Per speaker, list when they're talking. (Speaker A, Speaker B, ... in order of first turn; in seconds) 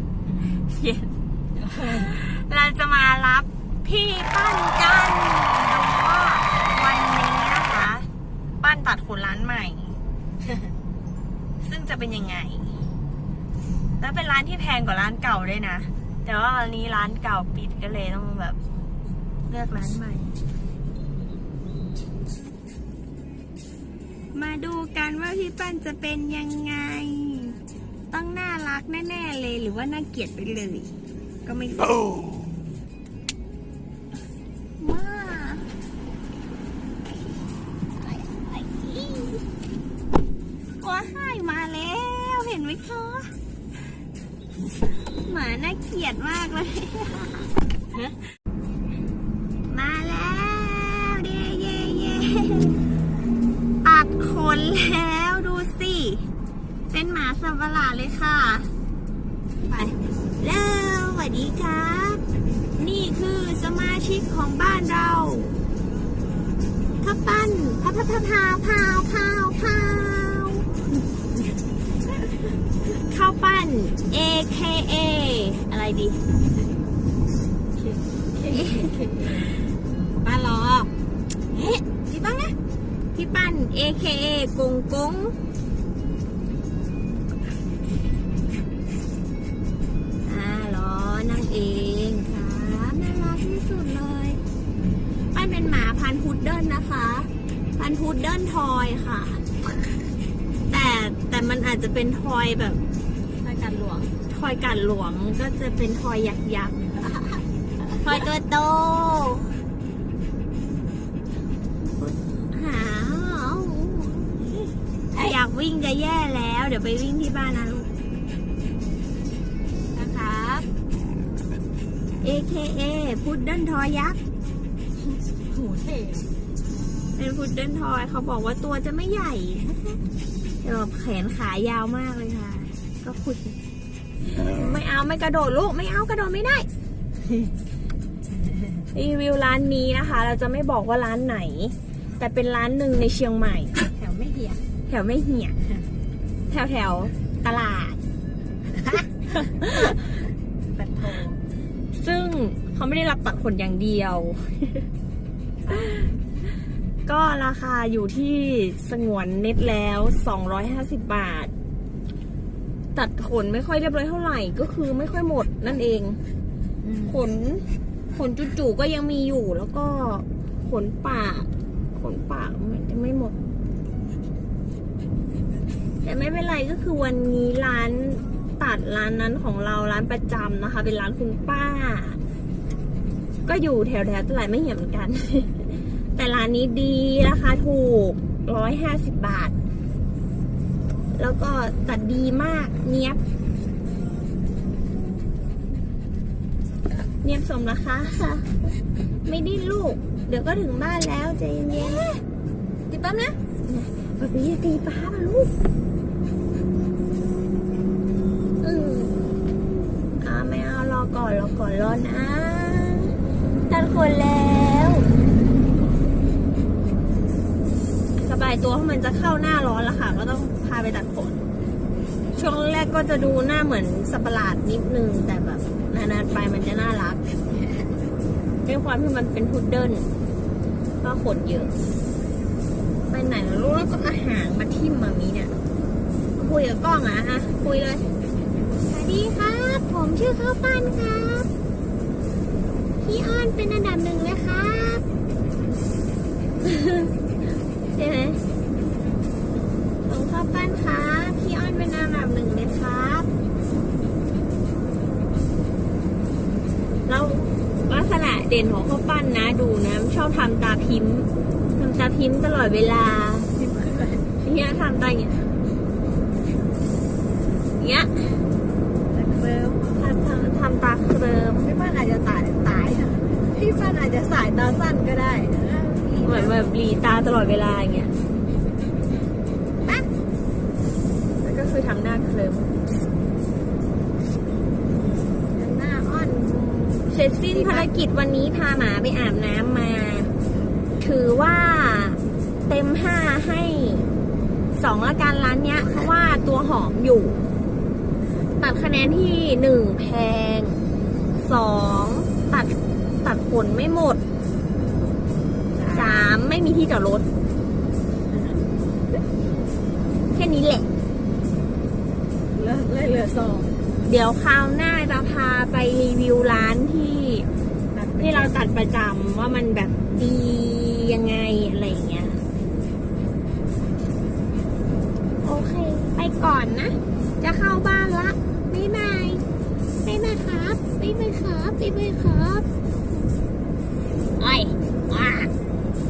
Speaker A: 0.5-1.1, 1.9-8.1, 8.6-10.0, 11.6-12.8, 14.0-18.6, 19.5-20.3, 24.3-27.6, 28.1-30.9, 31.4-32.1, 34.8-35.7, 38.0-39.4, 40.8-43.3, 45.2-47.5, 49.7-52.8, 53.8-56.3, 56.9-58.7, 60.4-62.2, 62.8-65.6, 67.0-70.7, 73.0-76.2, 78.5-78.9, 83.1-85.3, 90.2-94.4, 95.3-99.4, 100.7-102.8, 104.3-106.8, 108.0-109.5, 111.8-114.3, 115.2-117.9, 122.2-124.2, 127.2-130.0, 130.6-133.5, 134.3-136.7, 138.9-143.8, 144.9-145.6, 146.5-148.0, 149.4-149.9, 151.9-154.9, 157.1-161.5, 162.9-166.2, 167.1-173.3, 176.0-182.2, 183.4-189.5, 191.1-193.2, 197.2-198.6, 199.2-202.0, 203.7-205.5, 208.6-209.2, 210.2-213.1, 213.7-215.1, 218.2-221.4, 222.3-227.2, 228.6-230.1, 231.0-231.7, 233.1-235.5, 236.4-238.1, 238.9-241.5, 243.0-245.0, 246.6-247.1, 247.9-248.4, 250.1-253.3, 257.1-263.5, 264.4-265.4, 267.8-268.4, 269.9-271.7, 276.2-278.1, 281.4-282.8, 287.1-290.3, 291.0-294.1, 294.8-297.4, 298.6-300.8, 301.4-304.2, 305.9-307.2, 310.3-310.9, 314.0-317.5, 318.2-322.4, 325.4-329.4, 330.0-332.6, 334.4-335.5
Speaker B: 1.6-2.0, 59.7-60.0, 77.8-79.6, 80.2-80.9, 81.5-82.5, 103.4-104.1, 119.9-120.7, 125.4-126.3, 144.0-144.6, 150.8-151.4, 155.7-156.1, 166.8-167.2, 201.7-202.2, 202.9-203.4, 263.5-264.3, 269.1-270.1, 271.6-276.7, 285.5-287.9, 305.7-306.3, 308.3-308.6, 312.5-313.7, 317.9-318.5